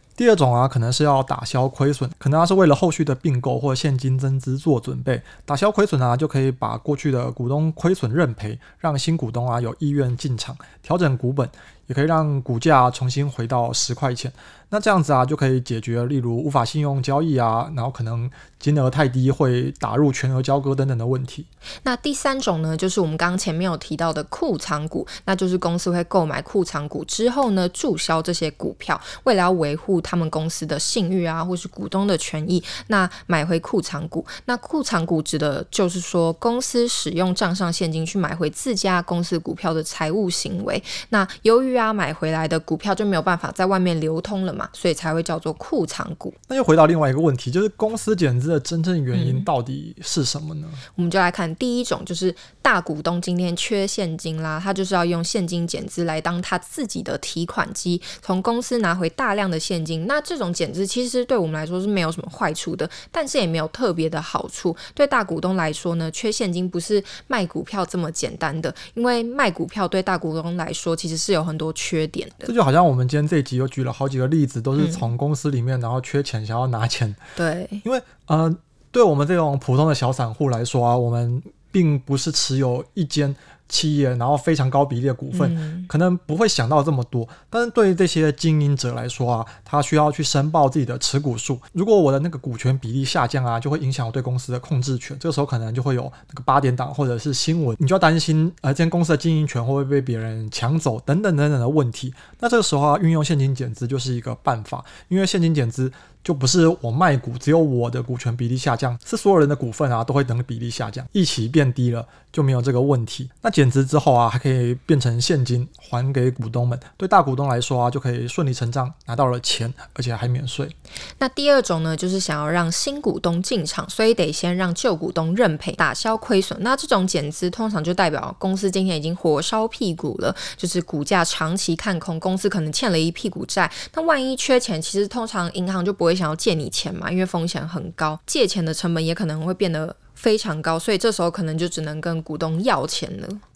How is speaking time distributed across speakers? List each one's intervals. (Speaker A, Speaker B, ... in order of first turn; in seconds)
Speaker A: 0.2-21.5, 46.5-50.8, 72.5-77.2, 77.8-120.7
Speaker B: 21.8-46.4, 49.1-49.5, 50.9-72.5, 74.8-75.1, 77.3-77.8, 85.3-85.9, 121.2-143.4